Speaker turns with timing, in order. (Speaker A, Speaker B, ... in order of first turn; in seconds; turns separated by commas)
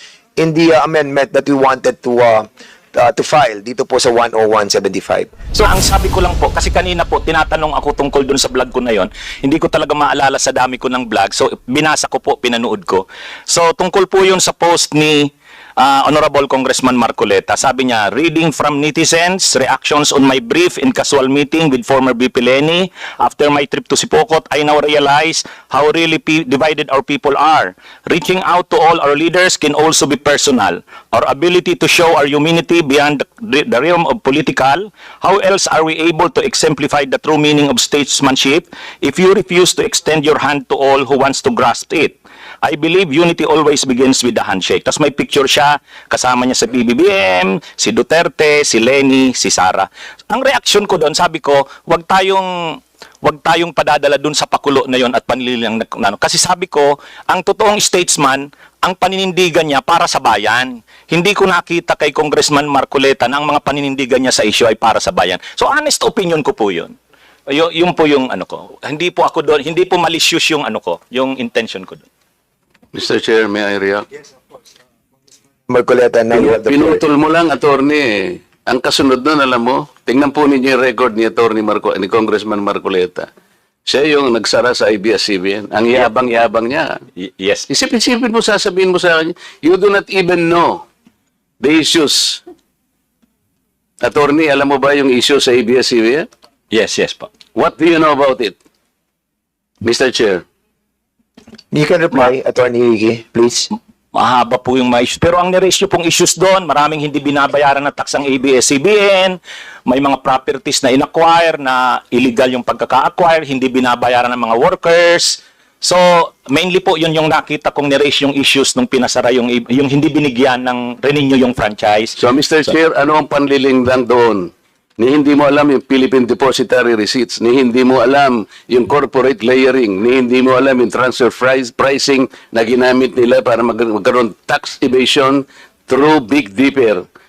Speaker A: 0.4-5.7, Speaker B: 5.6-66.9, Speaker B: 67.5-72.0, Speaker C: 72.9-74.0, Speaker A: 75.7-77.0, Speaker C: 76.3-83.3, Speaker C: 83.9-87.0, Speaker B: 87.2-87.7, Speaker C: 87.7-90.8, Speaker C: 91.6-92.4, Speaker C: 94.0-96.3, Speaker B: 96.7-97.3, Speaker C: 97.5-98.5, Speaker C: 99.8-100.4, Speaker A: 101.7-103.7, Speaker B: 104.2-122.2, Speaker C: 122.2-137.0